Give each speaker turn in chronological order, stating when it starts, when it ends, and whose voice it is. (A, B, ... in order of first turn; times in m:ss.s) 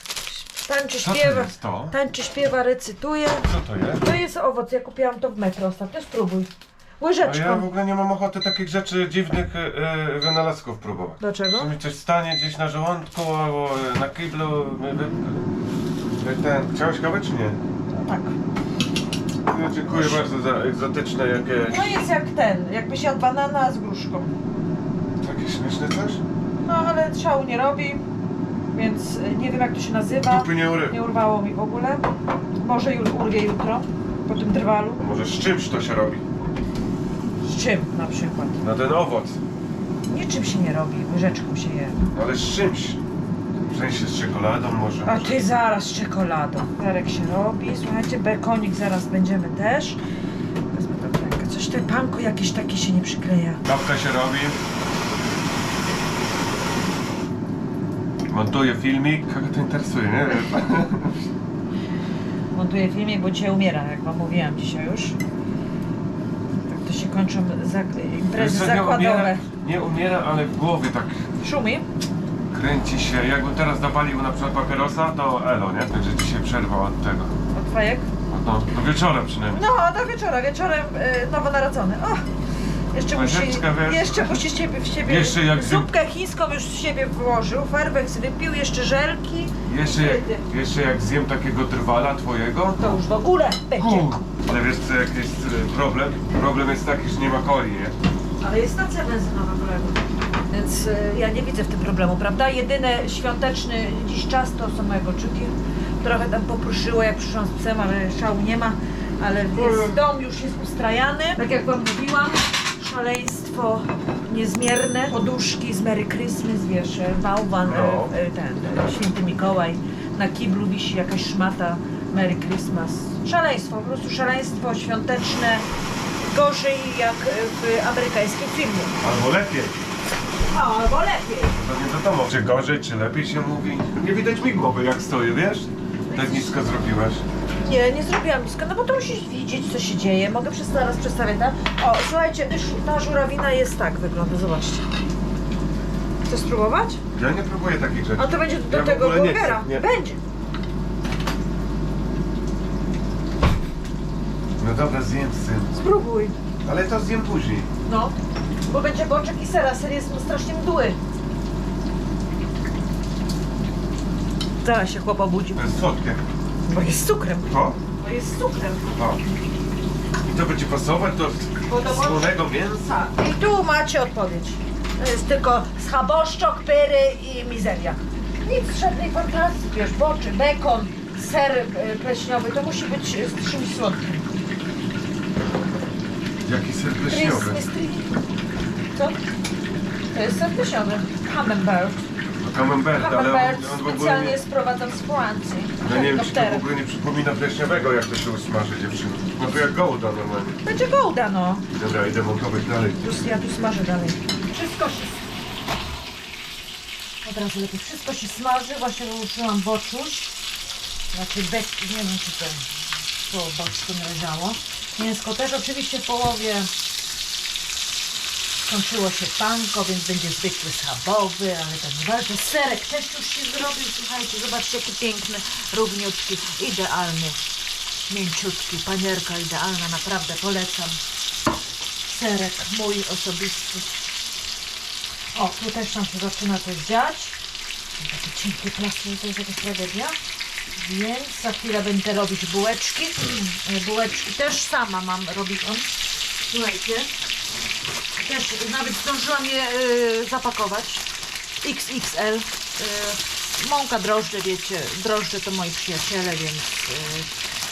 0:00.3-0:07.7 A
0:01.0-0:02.0 B
0:03.4-0:04.1 B
0:07.2-0:15.5 B
0:11.2-0:11.7 A
0:16.1-0:17.6 B
0:17.9-0:18.4 A
0:19.4-0:22.0 B
0:19.8-0:20.2 A
0:21.6-0:24.3 A
0:25.2-0:26.2 B
0:26.6-0:28.0 A
0:28.7-0:32.1 A
0:30.2-0:31.0 B
0:32.6-0:35.0 A
0:35.0-0:36.2 B
0:37.4-0:38.6 A
0:38.6-0:39.4 B
0:40.0-0:42.1 A
0:42.1-0:43.0 B
0:43.7-0:45.5 B
0:45.0-0:50.0 A
0:50.7-0:53.6 A
0:53.6-0:54.6 B
0:58.3-1:01.3 B
1:02.5-1:05.2 A
1:06.7-1:09.5 A
1:08.3-1:11.3 B
1:11.4-1:11.9 A
1:12.5-1:17.3 B
1:17.5-1:18.1 A
1:18.3-1:19.6 B
1:19.5-1:22.2 A
1:22.9-1:30.4 A
1:23.1-1:25.9 B
1:29.7-1:33.0 B
1:32.8-1:34.2 A
1:33.8-1:38.0 B
1:38.4-2:05.7 A
1:49.5-1:50.0 B
1:57.6-1:58.1 B
2:06.2-2:09.0 A
2:09.0-2:09.8 B
2:10.5-2:11.6 A
2:11.5-2:17.3 B
2:16.1-2:16.5 A
2:17.6-2:24.9 A
2:26.3-2:27.0 A
2:27.1-2:29.8 B
2:28.2-2:30.2 A
2:34.6-2:35.8 B
2:35.7-2:36.4 A
2:36.6-2:37.7 B
2:37.9-2:38.1 A
2:38.7-2:41.0 A
2:44.6-2:45.6 A
2:45.6-2:46.2 B
2:46.7-2:49.0 A
2:47.4-2:47.8 B
2:48.9-2:49.2 B
2:50.2-2:52.9 B
2:51.7-3:04.3 A
3:06.4-3:07.7 B
3:07.0-3:08.1 A
3:08.9-3:09.2 A
3:10.1-3:12.1 A
3:12.4-3:14.4 B
3:12.9-3:16.7 A
3:15.8-3:20.6 B
3:20.6-3:21.7 A
3:21.7-3:23.1 B
3:23.0-3:25.2 A
3:27.2-3:30.3 A
3:31.1-3:32.7 A
3:33.2-3:36.7 A
3:38.6-3:47.4 A
3:48.1-3:51.0 A
3:52.1-3:53.9 A
3:55.3-3:57.4 A
3:58.0-4:00.2 A
4:00.8-4:07.1 A
4:08.2-4:11.1 A
4:11.6-4:17.3 A